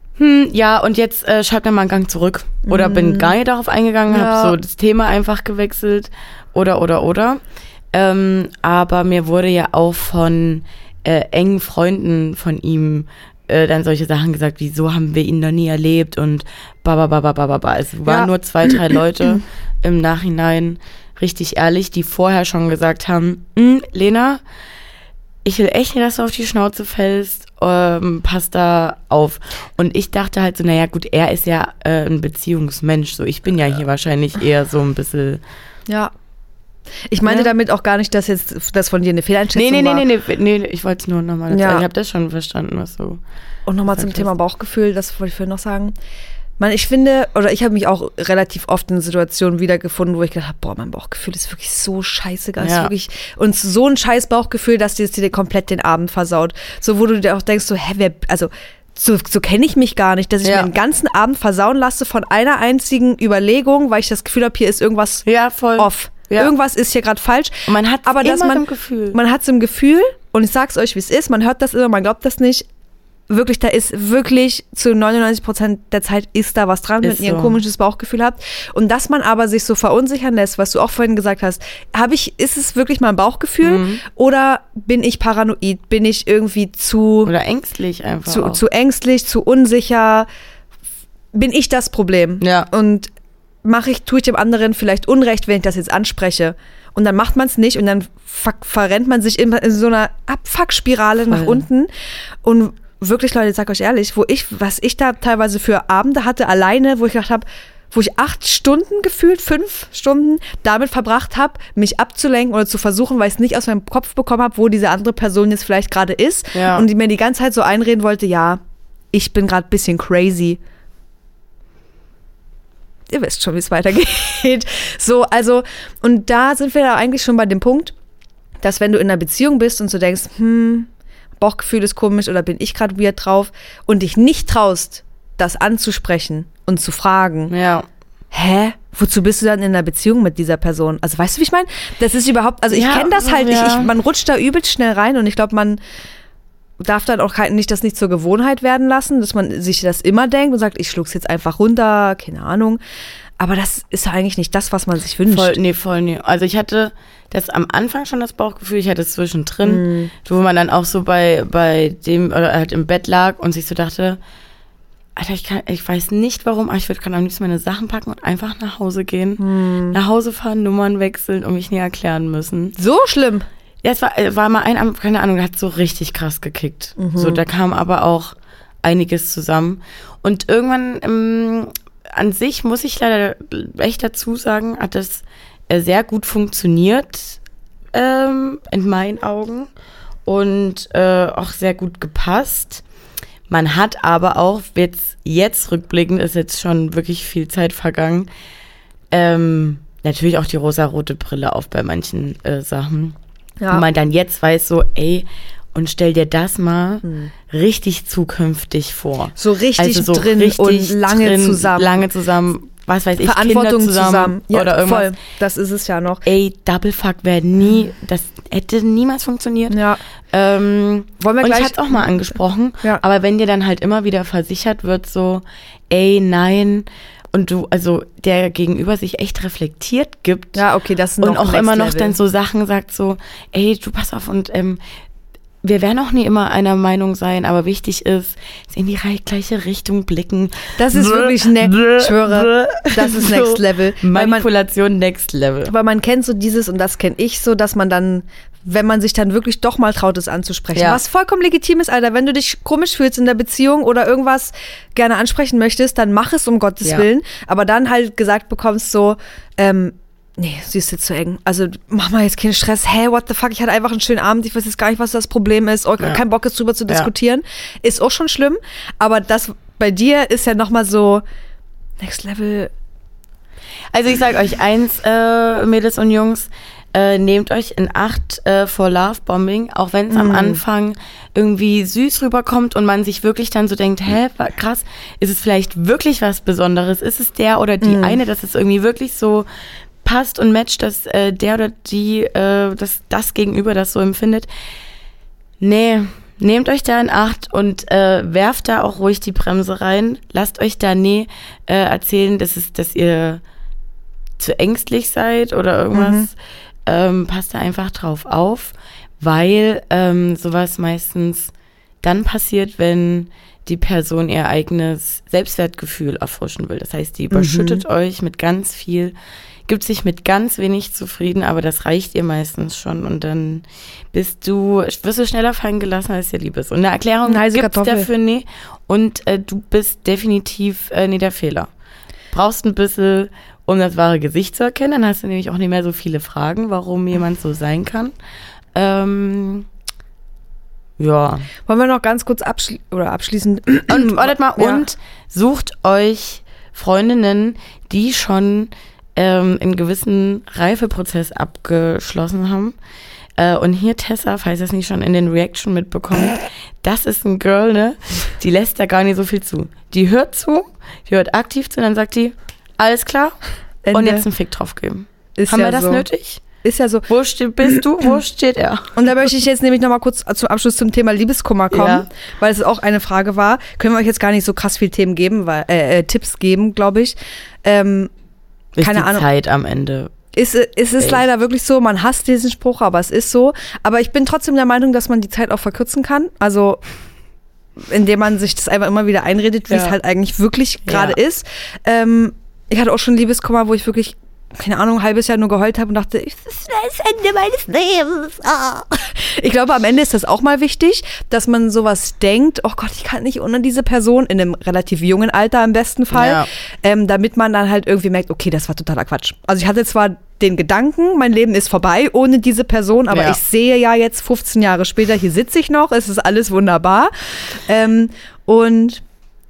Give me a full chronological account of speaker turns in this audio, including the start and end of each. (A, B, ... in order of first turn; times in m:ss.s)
0:00.2-0:07.4 A
0:02.7-0:03.3 B
0:04.1-0:04.6 B
0:07.9-0:24.4 A
0:18.0-0:19.0 B
0:25.4-0:35.4 A
0:35.9-0:36.1 B
0:37.1-0:40.0 B
0:37.2-0:37.5 A
0:39.5-0:43.2 A
0:41.5-0:41.8 B
0:43.6-0:45.9 B
0:43.9-0:44.3 A
0:46.6-1:05.2 B
0:52.6-0:52.9 A
1:00.4-1:00.7 A
1:05.2-1:06.5 A
1:05.8-1:12.6 B
1:07.7-1:09.2 A
1:13.3-1:27.3 B
1:17.0-1:17.6 A
1:23.6-1:24.0 A
1:27.2-1:28.6 A
1:28.3-1:30.3 B
1:31.3-1:33.1 B
1:32.4-1:32.7 A
1:33.6-1:41.9 B
1:41.3-1:41.6 A
1:42.4-1:58.6 B
1:56.5-1:56.8 A
1:59.1-2:00.6 B
2:03.1-2:07.9 B
2:08.6-2:10.9 B
2:11.4-2:17.5 B
2:17.5-2:17.8 A
2:18.3-2:25.8 B
2:22.7-2:23.9 A
2:26.8-2:32.8 B
2:33.4-2:35.6 B
2:35.3-2:44.2 A
2:39.6-2:40.1 B
2:45.2-2:52.8 A
2:49.4-2:50.0 B
2:52.8-2:53.4 B
2:53.8-3:07.4 A
2:57.0-2:57.4 B
3:07.9-3:09.7 A
3:10.2-3:12.8 A
3:13.5-3:18.3 A
3:19.1-3:23.2 A
3:23.6-3:23.8 B
3:23.7-3:35.1 A
3:27.0-3:27.3 B
3:29.4-3:32.0 B
3:33.2-3:36.2 B
3:36.2-3:39.8 A
3:39.7-3:40.0 B
3:40.3-3:50.6 A
3:41.2-3:42.0 B
3:50.5-3:52.2 B
3:51.2-3:54.8 A
3:55.6-4:05.7 A
4:00.8-4:04.4 B
4:05.7-4:31.2 B
4:10.7-4:11.0 A
4:32.0-4:32.7 B
4:33.9-4:49.5 A
4:40.1-4:40.6 B
4:47.8-4:48.2 B
4:50.0-4:54.5 A
4:55.6-5:03.4 A
5:04.4-5:19.1 A
5:05.9-5:06.3 B
5:17.3-5:17.8 B
5:19.7-5:31.7 A
5:27.3-5:28.1 B
5:32.3-5:38.1 A
5:38.7-5:39.7 A
5:41.0-5:41.5 A
5:41.6-5:44.8 B
5:43.9-5:52.7 A
5:53.4-6:03.4 A
6:03.8-6:04.2 B
6:03.9-6:06.4 A
6:05.4-6:06.0 B
6:06.6-6:07.1 B
6:07.1-6:09.0 A
6:09.0-6:18.1 B
6:11.7-6:12.1 A
6:18.8-6:20.1 A
6:18.8-6:19.2 B
6:20.3-6:26.8 B
6:21.0-6:21.2 A
6:27.8-6:59.0 B
6:29.7-6:30.0 A
6:30.8-6:31.2 A
6:46.1-6:46.5 A
6:53.1-6:53.4 A